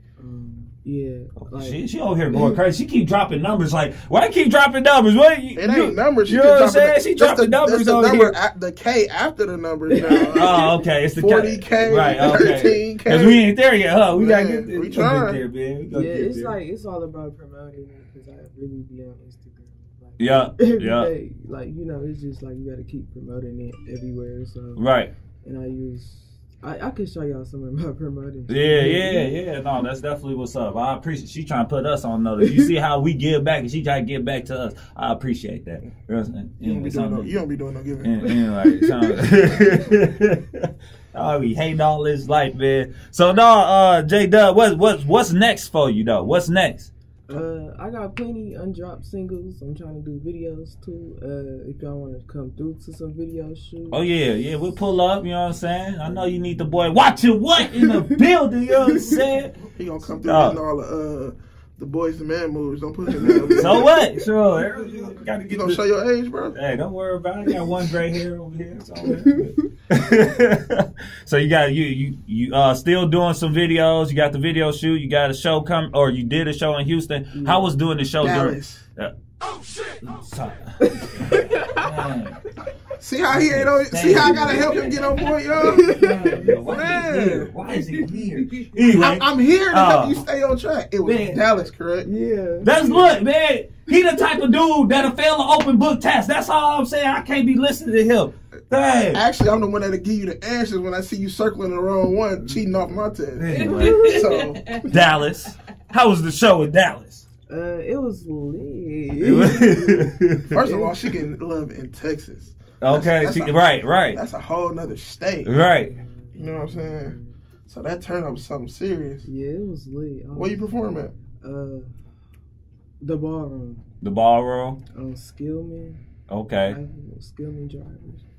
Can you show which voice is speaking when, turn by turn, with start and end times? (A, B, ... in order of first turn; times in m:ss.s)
0:00.2-0:02.6 A
0:01.4-0:08.4 B
0:05.6-0:10.6 C
0:09.9-0:10.6 A
0:10.1-0:16.5 B
0:11.2-0:13.5 C
0:14.1-0:15.4 C
0:15.9-0:24.8 A
0:20.2-0:21.1 B
0:24.8-0:25.1 B
0:25.4-0:29.3 A
0:28.5-0:37.3 B
0:36.6-0:38.1 C
0:38.0-0:46.9 B
0:47.3-0:54.0 A
0:53.9-0:59.6 B
0:57.7-0:58.0 A
0:59.7-1:03.9 C
1:00.2-1:00.6 B
1:03.2-1:03.7 A
1:03.4-1:05.8 B
1:05.5-1:06.5 C
1:06.5-1:19.1 B
1:17.3-1:17.7 A
1:18.2-1:18.8 C
1:19.8-1:22.4 B
1:20.8-1:21.8 A
1:23.0-1:26.0 C
1:23.3-1:30.2 B
1:25.6-1:26.5 A
1:26.6-1:27.5 C
1:27.7-1:28.4 A
1:28.9-1:32.1 C
1:31.0-1:31.4 B
1:32.0-1:33.1 A
1:32.6-1:39.2 B
1:39.1-1:44.8 C
1:43.3-1:44.3 B
1:43.6-1:44.3 A
1:44.8-1:47.2 B
1:47.5-1:51.0 A
1:49.2-1:50.5 B
1:50.5-1:55.5 C
1:52.8-1:54.2 B
1:55.4-1:55.9 B
1:55.8-1:57.4 A
1:56.4-1:57.2 C
1:57.7-1:59.2 C
1:59.2-2:00.8 A
2:00.3-2:01.1 C
2:01.4-2:01.9 A
2:03.0-2:03.8 A
2:04.0-2:04.8 B
2:04.9-2:06.0 A
2:06.3-2:06.8 B
2:06.6-2:08.2 A